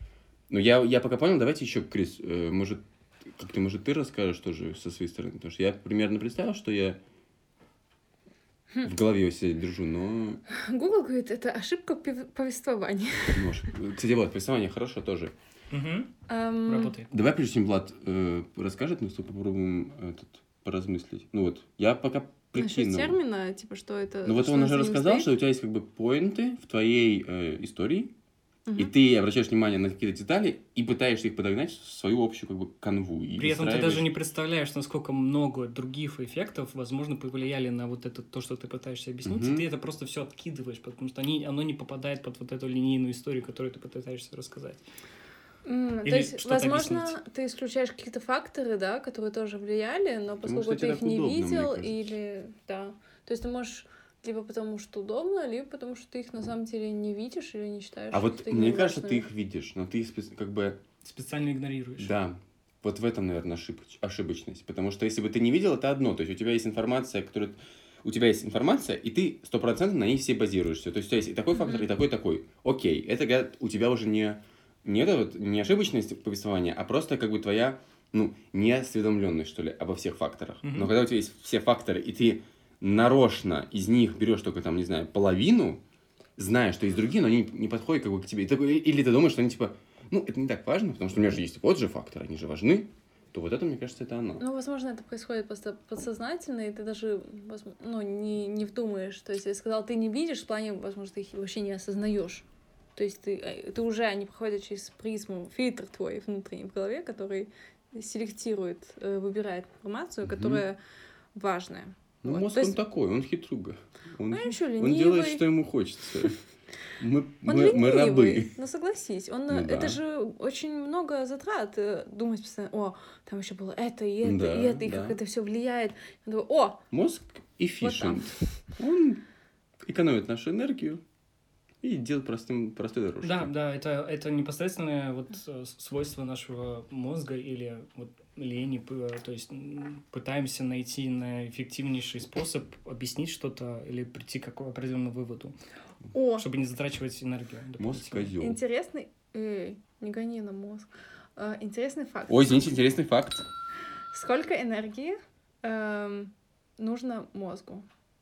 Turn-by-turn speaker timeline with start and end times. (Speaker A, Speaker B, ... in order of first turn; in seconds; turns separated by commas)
Speaker A: 0.5-7.0, Speaker A: 8.8-10.4, Speaker B: 10.5-13.5, Speaker A: 13.3-15.3, Speaker C: 15.7-16.1, Speaker B: 16.3-17.0, Speaker C: 16.6-17.1, Speaker A: 17.1-23.2, Speaker B: 22.5-25.3, Speaker A: 24.2-28.1, Speaker B: 28.6-28.9, Speaker A: 28.7-34.1, Speaker C: 33.4-44.8, Speaker A: 39.2-39.6, Speaker B: 45.6-59.3, Speaker C: 46.0-47.1, Speaker A: 50.4-52.0, Speaker A: 58.1-60.8, Speaker C: 61.0-62.1, Speaker A: 62.0-85.8, Speaker B: 71.6-71.8, Speaker C: 80.6-80.9, Speaker A: 86.4-94.4, Speaker B: 94.4-102.4, Speaker B: 103.0-110.8, Speaker A: 110.2-110.6, Speaker B: 111.3-112.8, Speaker A: 112.2-116.4, Speaker B: 114.3-115.5, Speaker A: 117.0-118.5, Speaker B: 117.4-126.8, Speaker A: 119.5-120.0, Speaker A: 124.2-125.2, Speaker A: 126.9-129.2, Speaker B: 127.8-128.4, Speaker A: 129.8-131.0, Speaker A: 131.8-133.5, Speaker C: 133.2-145.5, Speaker B: 146.1-146.5, Speaker C: 146.4-148.3, Speaker A: 147.8-148.6, Speaker B: 148.4-152.7, Speaker A: 152.3-153.4, Speaker B: 154.1-157.8